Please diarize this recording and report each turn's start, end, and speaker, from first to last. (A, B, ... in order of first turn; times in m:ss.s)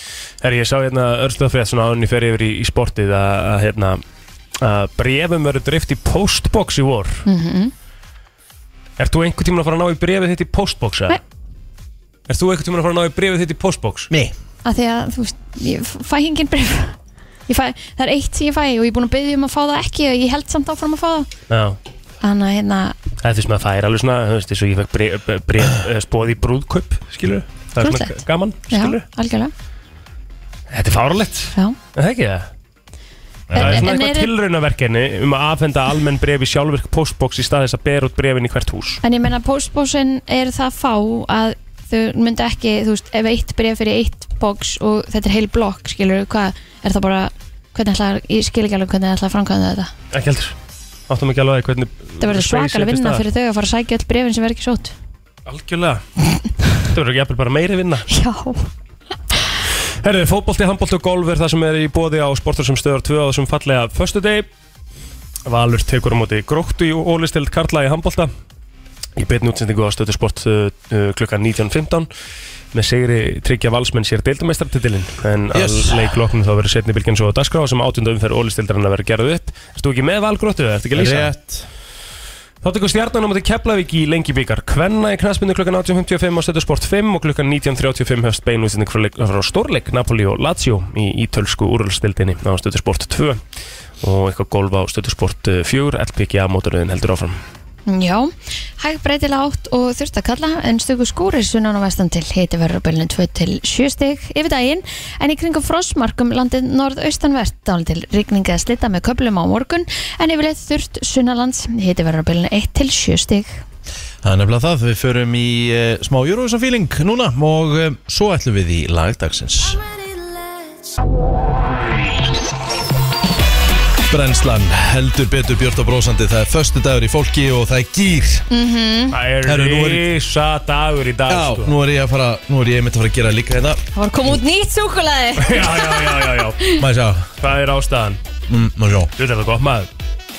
0:00.4-0:04.0 A
0:04.6-0:07.2 A
0:07.2-0:07.7 B
0:09.0-0:11.2 A
0:12.3-0:14.1 A
0:14.1-0:14.4 C
0:14.6-0:17.0 B
0:17.5-0:21.3 B
0:21.5-0:21.8 A
0:22.2-0:23.0 B
0:23.2-0:29.0 A
0:27.8-0:28.1 B
0:28.7-0:29.5 B
0:30.7-0:32.5 A
0:33.5-0:33.9 C
0:33.5-0:39.0 A
0:33.6-0:34.3 B
0:39.0-0:49.9 B
0:50.1-0:50.6 A
0:51.1-0:53.2 A
0:52.2-0:54.9 B
0:55.4-0:56.0 A
0:56.8-0:58.1 A
0:58.1-0:58.7 B
1:00.0-1:04.5 A
1:05.4-1:08.3 A
1:09.2-1:12.1 A
1:12.7-1:21.3 A
1:15.5-1:16.1 C
1:20.9-1:21.7 C
1:22.6-1:33.4 A
1:34.0-1:37.4 A
1:37.9-1:53.6 B
1:54.2-1:59.8 C
2:04.1-2:08.4 C
2:08.5-2:09.1 B
2:09.1-2:11.7 A
2:09.4-2:10.1 C
2:11.3-2:13.8 C
2:13.9-2:16.8 B
2:15.4-2:16.6 A
2:16.8-2:17.3 C
2:17.4-2:18.2 A
2:18.5-2:19.1 C
2:19.2-2:19.9 A